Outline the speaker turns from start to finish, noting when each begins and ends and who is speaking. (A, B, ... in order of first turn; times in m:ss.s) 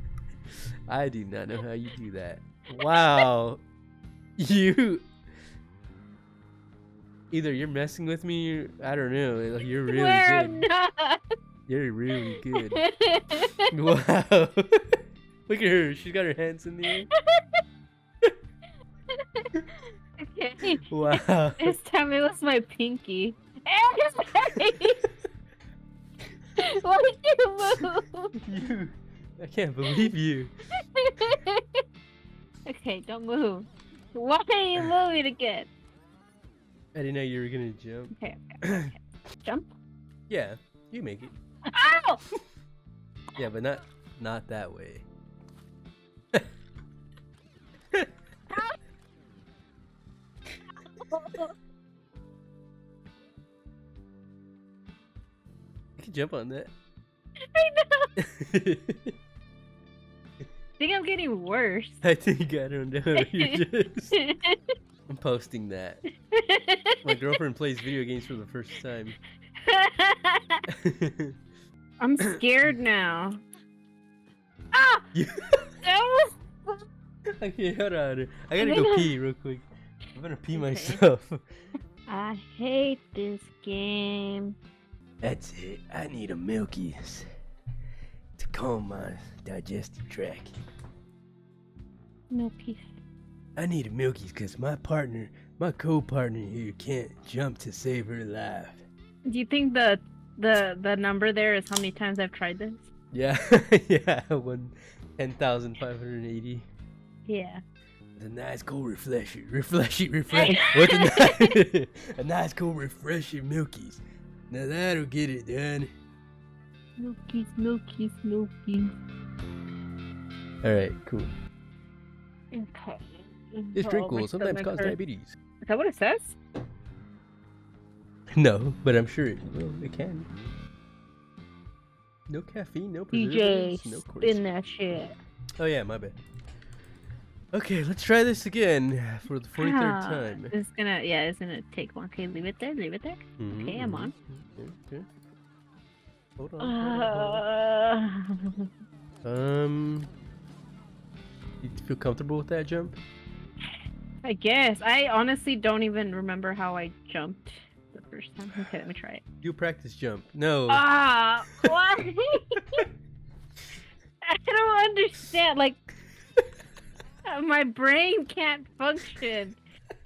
0:00.9-0:03.6 A
0:02.8-0:03.2 B
0:04.4-0:05.1 A
0:07.3-0:10.6 A
0:09.9-0:11.2 B
0:11.7-0:12.8 A
0:12.7-0:13.7 B
0:13.7-0:17.1 A
0:19.1-0:19.6 B
0:20.2-0:25.0 B
0:20.8-0:21.8 A
0:26.6-0:28.4 B
0:28.4-0:30.5 A
0:30.7-0:31.8 B
0:32.6-0:35.7 B
0:36.9-0:38.9 A
0:38.2-0:39.7 B
0:40.3-0:41.3 A
0:41.7-0:42.2 B
0:43.4-0:45.0 A
0:51.0-0:51.5 B
0:56.0-0:56.7 A
0:57.5-0:58.1 B
0:58.2-0:59.2 A
1:00.8-1:02.0 B
1:02.0-1:04.2 A
1:03.2-1:03.6 B
1:04.1-1:04.6 B
1:05.1-1:06.0 A
1:06.3-1:07.2 B
1:07.0-1:09.2 A
1:09.6-1:10.6 B
1:10.7-1:11.4 A
1:12.0-1:13.4 B
1:14.7-1:15.1 B
1:15.1-1:15.8 A
1:15.8-1:16.8 B
1:17.4-1:21.4 A
1:18.6-1:19.2 B
1:20.5-1:21.0 B
1:22.1-1:24.6 B
1:25.2-1:27.3 A
1:28.4-1:30.5 A
1:32.3-1:32.9 B
1:33.6-1:38.8 A
1:39.2-1:42.9 B
1:43.1-1:46.7 A
1:47.3-1:47.6 B
1:48.2-1:55.9 A
1:50.3-1:51.6 B
1:57.0-1:58.9 B
2:00.6-2:01.3 A
2:02.5-2:05.0 B
2:03.8-2:05.4 A
2:05.6-2:06.4 B
2:08.3-2:10.3 A
2:12.3-2:14.4 A
2:13.1-2:15.2 B
2:15.6-2:16.2 A
2:17.5-2:20.5 A
2:19.6-2:24.1 B
2:23.4-2:25.1 A
2:26.4-2:27.4 A
2:26.6-2:28.7 B
2:29.2-2:30.1 A
2:31.6-2:33.0 A
2:34.2-2:39.2 B
2:39.4-2:40.8 A
2:40.7-2:42.9 B
2:44.2-2:45.8 B
2:47.3-2:49.6 B